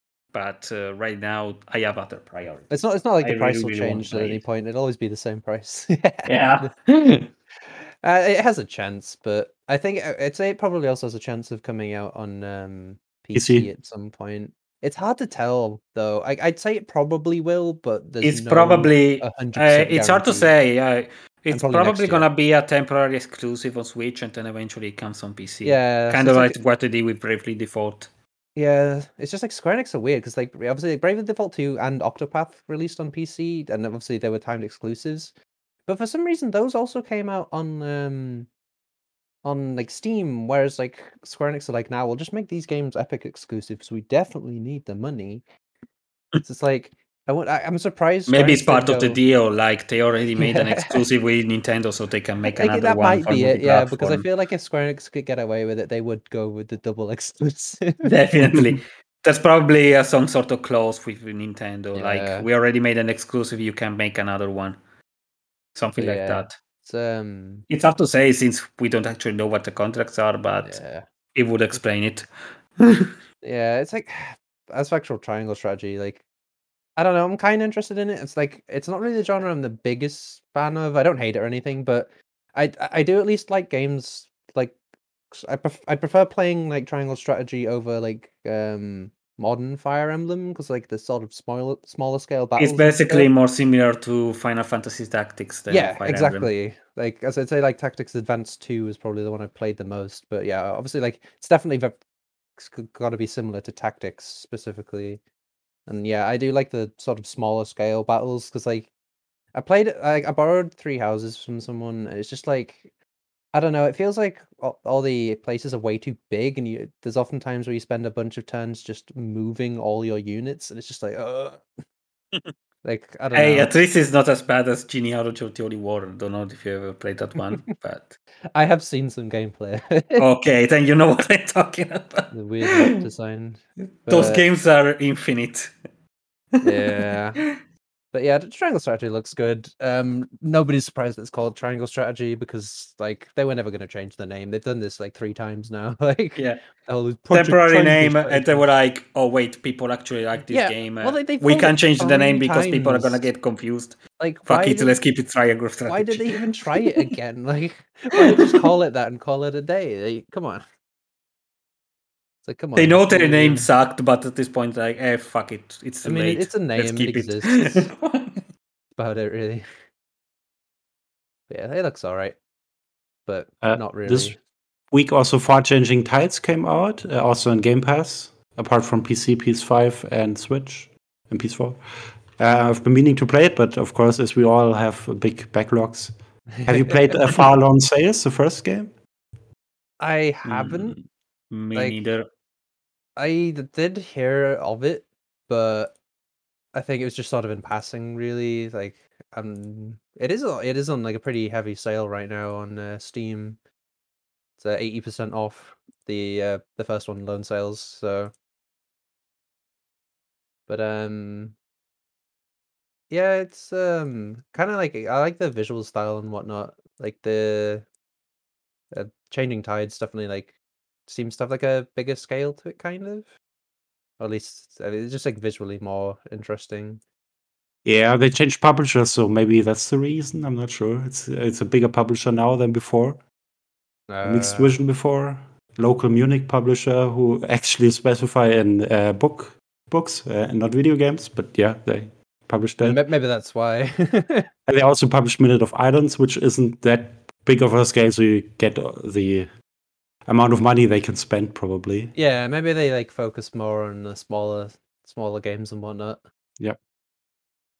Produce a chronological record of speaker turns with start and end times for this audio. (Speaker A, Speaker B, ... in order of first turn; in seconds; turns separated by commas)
Speaker A: 0.3-4.4, Speaker B: 2.7-6.8, Speaker A: 6.3-7.2, Speaker B: 7.6-20.5, Speaker C: 13.3-13.7, Speaker A: 18.2-28.1, Speaker B: 21.5-22.3, Speaker B: 25.6-26.6, Speaker B: 28.6-35.3, Speaker B: 35.9-38.5, Speaker B: 39.4-45.4, Speaker B: 46.4-49.2, Speaker A: 48.3-54.3, Speaker B: 50.4-51.0, Speaker B: 52.5-58.1, Speaker A: 58.0-64.8, Speaker B: 62.0-62.5, Speaker A: 65.8-66.5, Speaker B: 66.0-67.7, Speaker A: 67.7-70.8, Speaker B: 70.6-71.1, Speaker A: 71.3-72.3, Speaker A: 72.8-73.1, Speaker B: 73.4-76.2, Speaker B: 77.0-84.8, Speaker B: 85.3-93.3, Speaker A: 92.6-96.5, Speaker B: 95.7-102.0, Speaker B: 102.6-105.2, Speaker B: 105.9-108.9, Speaker B: 109.5-112.9, Speaker B: 113.5-121.6, Speaker B: 122.8-123.7, Speaker A: 123.3-128.2, Speaker B: 128.6-130.2, Speaker A: 130.2-132.3, Speaker B: 132.3-134.5, Speaker A: 134.1-135.7, Speaker B: 136.6-137.4, Speaker A: 136.9-137.5, Speaker B: 138.1-148.7, Speaker A: 146.4-146.6, Speaker A: 147.3-156.9, Speaker B: 150.5-153.2, Speaker B: 154.2-155.0, Speaker B: 155.9-160.6, Speaker B: 162.4-163.7, Speaker A: 162.8-168.4, Speaker B: 166.0-167.8, Speaker B: 169.0-169.7, Speaker B: 171.5-172.4, Speaker B: 173.3-174.4, Speaker C: 173.6-174.3, Speaker C: 174.9-189.0, Speaker B: 186.6-186.9, Speaker B: 190.0-191.0, Speaker A: 190.4-192.2, Speaker B: 191.8-192.0, Speaker B: 193.2-195.9, Speaker B: 196.7-203.6, Speaker B: 204.6-208.3, Speaker B: 210.7-211.6, Speaker B: 213.1-217.8, Speaker B: 218.9-220.6, Speaker B: 221.1-223.3, Speaker B: 224.2-227.0, Speaker C: 227.8-233.2, Speaker B: 234.1-234.8, Speaker C: 234.2-243.0, Speaker B: 242.8-244.5, Speaker C: 244.7-249.5, Speaker C: 250.3-252.1, Speaker B: 252.1-256.2